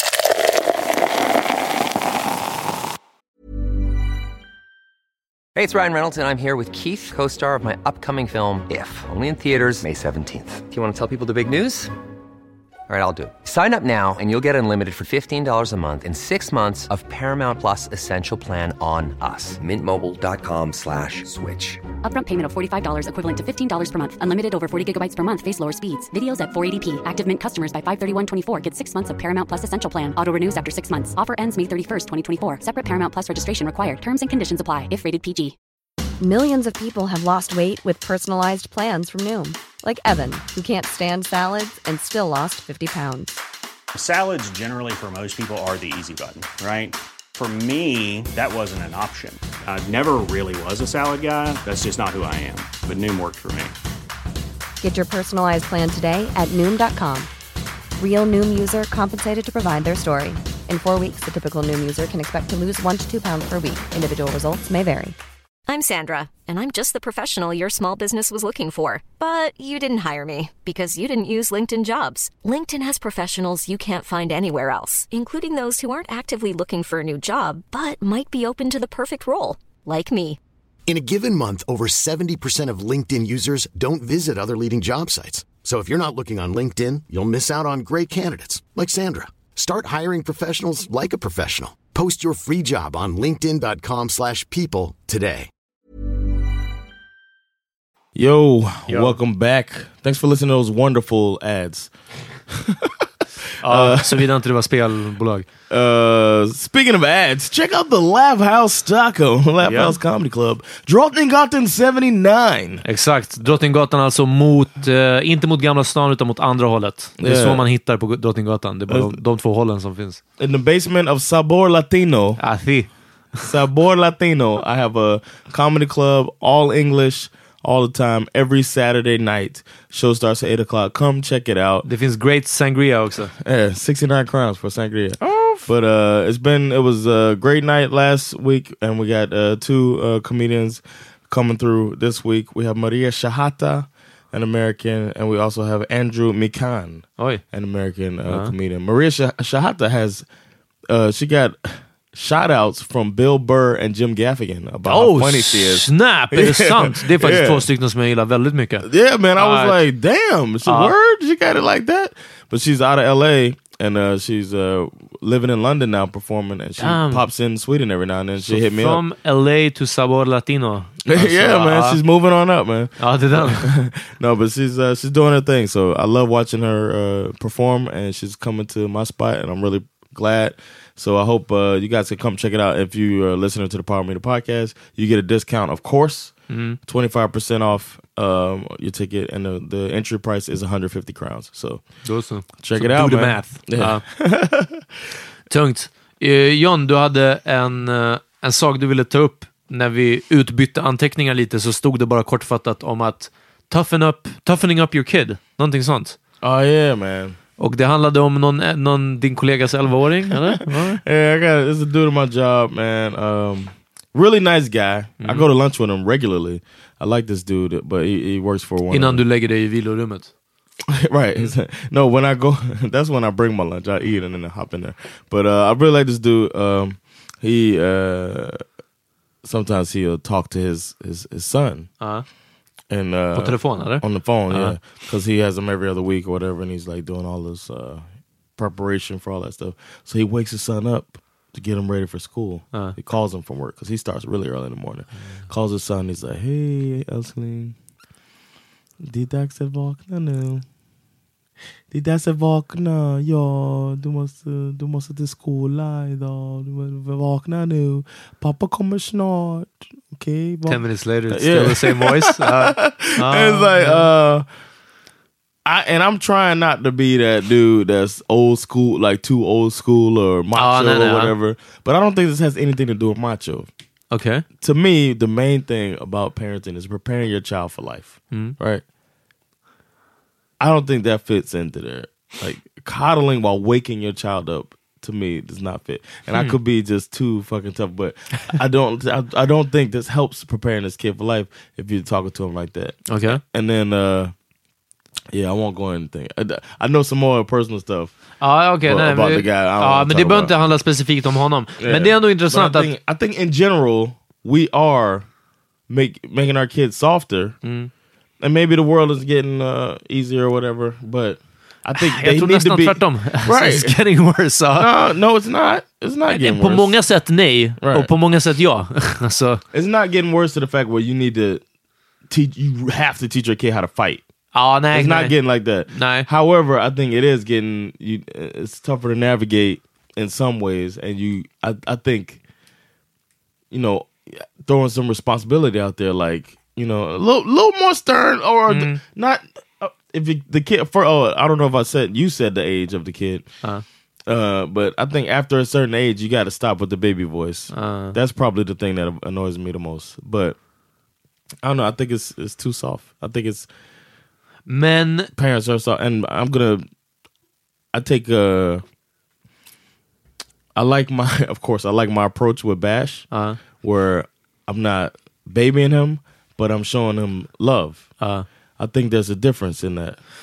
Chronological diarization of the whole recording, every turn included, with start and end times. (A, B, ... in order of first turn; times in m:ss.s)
0:05.5-0:11.9 A
0:12.9-0:21.8 A
0:22.0-0:35.5 B
0:36.2-0:43.4 C
0:43.9-0:53.7 D
0:54.8-0:57.3 C
0:58.0-1:05.2 C
1:05.7-1:20.4 E
1:20.9-1:35.5 F
1:38.1-1:41.9 G
1:38.9-1:39.1 H
1:42.5-1:43.0 G
1:43.6-1:45.5 H
1:43.6-1:44.3 G
1:45.7-1:52.8 G
1:49.6-1:50.0 H
1:52.8-2:00.2 H
1:57.2-1:57.6 G
1:58.9-1:59.2 G
2:00.4-2:02.4 G
2:02.4-2:03.4 H
2:03.4-2:11.8 G
2:11.8-2:13.3 H
2:13.4-2:30.2 G
2:15.2-2:15.6 H
2:28.3-2:28.5 H
2:30.9-2:37.6 G
2:34.9-2:38.8 H
2:38.8-2:49.0 G
2:39.4-2:39.8 H
2:40.6-2:40.9 H
2:46.8-2:47.2 H
2:48.4-2:52.0 H
2:51.0-3:11.8 G
2:53.0-2:53.7 H
3:06.5-3:06.8 H
3:12.0-3:14.0 H
3:12.6-3:14.8 G
3:15.5-3:26.2 H
3:26.4-3:27.4 G
3:27.6-3:31.0 H
3:30.4-3:39.2 G
3:35.2-3:35.5 H
3:38.9-3:40.3 H
3:40.9-3:48.6 G
3:49.4-3:51.9 G
3:52.0-3:52.2 H
3:52.9-3:58.0 G
3:53.3-3:54.8 H
3:58.6-4:07.8 G
4:09.0-4:10.6 G
4:11.9-4:24.4 G
4:20.7-4:24.1 H
4:25.6-4:33.7 G
4:30.5-4:31.3 H
4:34.1-4:34.4 H
4:34.6-4:38.8 G
4:40.6-4:54.3 G
4:53.1-4:53.4 H
4:55.3-4:58.2 G
4:58.4-5:02.9 H
4:58.8-5:00.5 G
5:01.8-5:05.2 G
5:05.9-5:07.6 G
5:07.6-5:07.9 H
5:08.4-5:14.0 G
5:12.0-5:14.9 H
5:14.8-5:17.0 G
5:16.3-5:19.6 H
5:17.8-5:18.1 G
5:19.7-5:21.6 G
5:22.3-5:24.2 G
5:24.5-5:25.4 H
5:24.9-5:32.4 G
5:25.9-5:26.3 H
5:33.7-5:43.5 G
5:38.7-5:39.0 H
5:44.2-5:50.6 G
5:47.7-5:48.2 H
5:51.6-5:53.7 G
5:54.7-5:55.3 H
5:55.3-5:56.8 G
5:57.9-5:58.8 G
6:00.7-6:08.1 G
6:03.3-6:03.6 H
6:08.2-6:08.4 H
6:08.8-6:10.2 G